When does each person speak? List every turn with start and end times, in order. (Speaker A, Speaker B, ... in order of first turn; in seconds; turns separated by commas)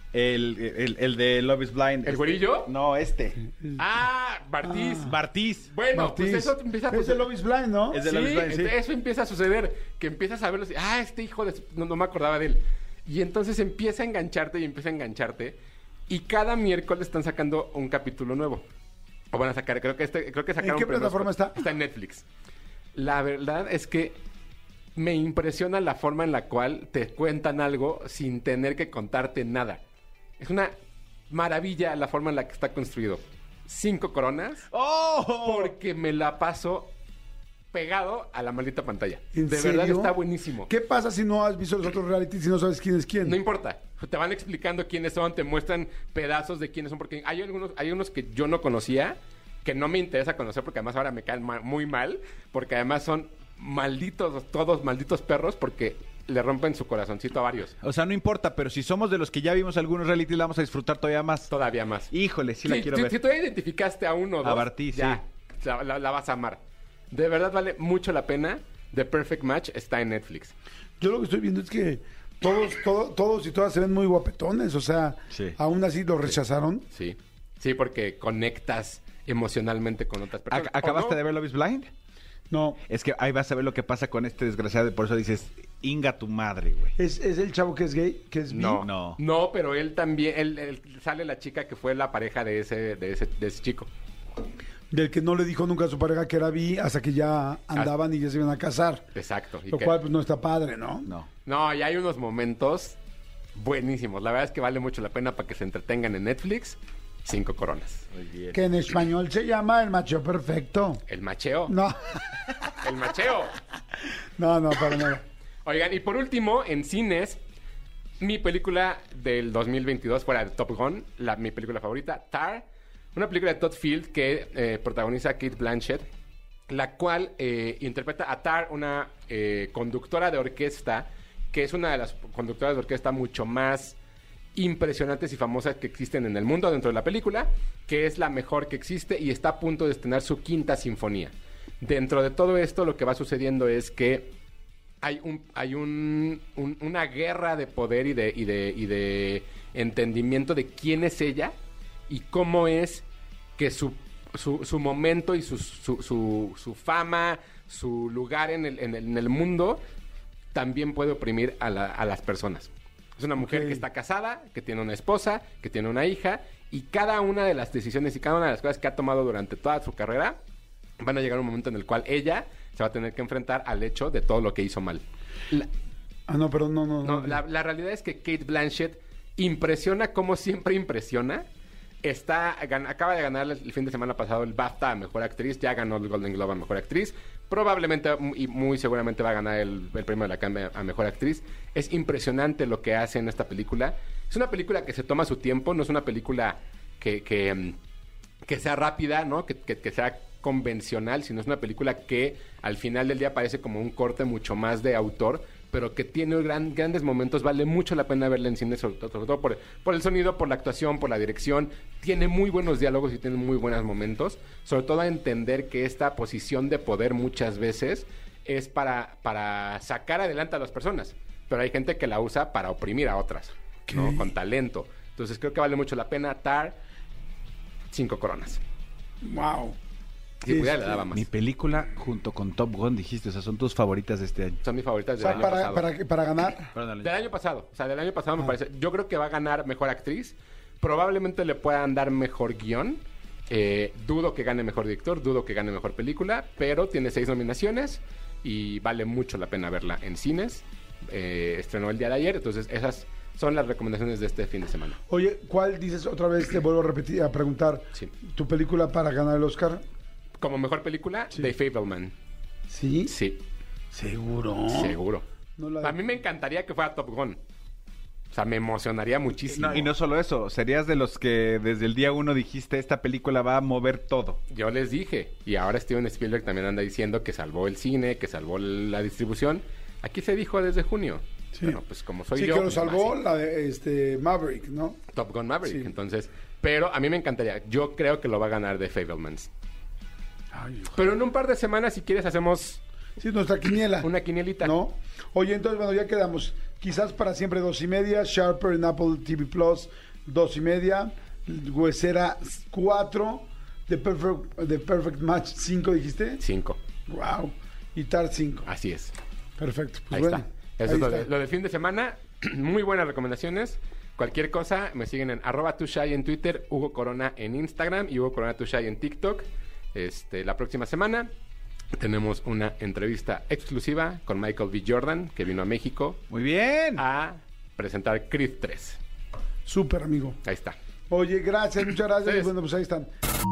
Speaker A: 0.1-3.4, Speaker B: 2.0-2.7, Speaker B: 3.8-5.1, Speaker C: 4.6-5.1, Speaker A: 5.0-5.7, Speaker B: 5.7-7.3, Speaker C: 5.9-8.0, Speaker A: 7.9-8.7, Speaker B: 8.0-15.6, Speaker B: 16.1-18.6, Speaker B: 19.3-22.2, Speaker C: 20.6-21.6, Speaker B: 22.9-24.2, Speaker B: 24.9-29.8, Speaker B: 30.4-30.7, Speaker B: 31.3-34.7, Speaker A: 34.7-35.7, Speaker B: 35.4-36.9, Speaker B: 37.7-40.7, Speaker C: 39.3-40.2, Speaker C: 40.7-43.4, Speaker B: 43.2-57.8, Speaker A: 57.8-61.5, Speaker B: 61.5-62.1, Speaker A: 62.1-63.1, Speaker B: 62.6-66.6, Speaker A: 64.4-65.2, Speaker B: 67.1-70.5, Speaker C: 71.0-76.8, Speaker B: 76.9-81.2, Speaker A: 80.5-81.9, Speaker C: 82.5-82.8, Speaker A: 82.9-86.9, Speaker C: 87.0-88.8, Speaker B: 88.5-93.9, Speaker A: 88.8-89.2, Speaker C: 94.9-99.1, Speaker B: 99.1-100.0, Speaker C: 99.7-101.1, Speaker B: 101.5-103.0, Speaker B: 103.5-108.0, Speaker A: 108.1-108.6, Speaker C: 108.5-111.0, Speaker B: 111.1-111.8, Speaker C: 111.7-112.5, Speaker B: 112.8-113.6, Speaker C: 114.4-115.2, Speaker B: 115.6-117.4, Speaker B: 118.2-126.1, Speaker B: 126.7-134.0, Speaker B: 134.5-144.3, Speaker B: 145.0-151.5, Speaker B: 152.1-153.0, Speaker B: 153.6-159.8, Speaker B: 160.5-170.4, Speaker C: 163.4-163.8, Speaker B: 171.0-175.7, Speaker C: 176.3-177.4, Speaker B: 177.0-181.4, Speaker B: 182.0-197.8, Speaker B: 198.4-226.8, Speaker C: 223.9-224.3, Speaker B: 227.9-228.6, Speaker C: 229.2-229.8, Speaker B: 230.4-231.2, Speaker C: 230.5-231.0, Speaker A: 231.1-234.6, Speaker B: 234.6-235.9, Speaker C: 235.2-236.7, Speaker A: 236.7-237.1, Speaker B: 237.0-255.0, Speaker C: 255.1-259.8, Speaker B: 260.4-262.1, Speaker C: 262.7-263.1, Speaker B: 263.1-263.4, Speaker C: 263.9-265.0, Speaker B: 264.7-265.2, Speaker C: 265.6-266.0, Speaker B: 265.8-267.4, Speaker B: 268.3-269.9, Speaker A: 269.5-274.4, Speaker B: 274.5-283.1, Speaker C: 281.5-281.8, Speaker C: 282.3-285.0, Speaker B: 285.1-289.5, Speaker C: 285.6-285.9, Speaker C: 290.5-291.0, Speaker B: 290.9-292.8, Speaker C: 293.2-306.4, Speaker B: 294.0-294.8, Speaker B: 306.4-306.8, Speaker C: 307.1-308.7, Speaker B: 308.6-309.1, Speaker C: 309.6-311.3, Speaker B: 310.1-321.3, Speaker B: 321.9-326.2, Speaker A: 326.3-327.0, Speaker B: 327.0-329.0, Speaker C: 329.6-330.4, Speaker B: 330.4-330.8, Speaker C: 331.1-333.1, Speaker B: 332.2-332.5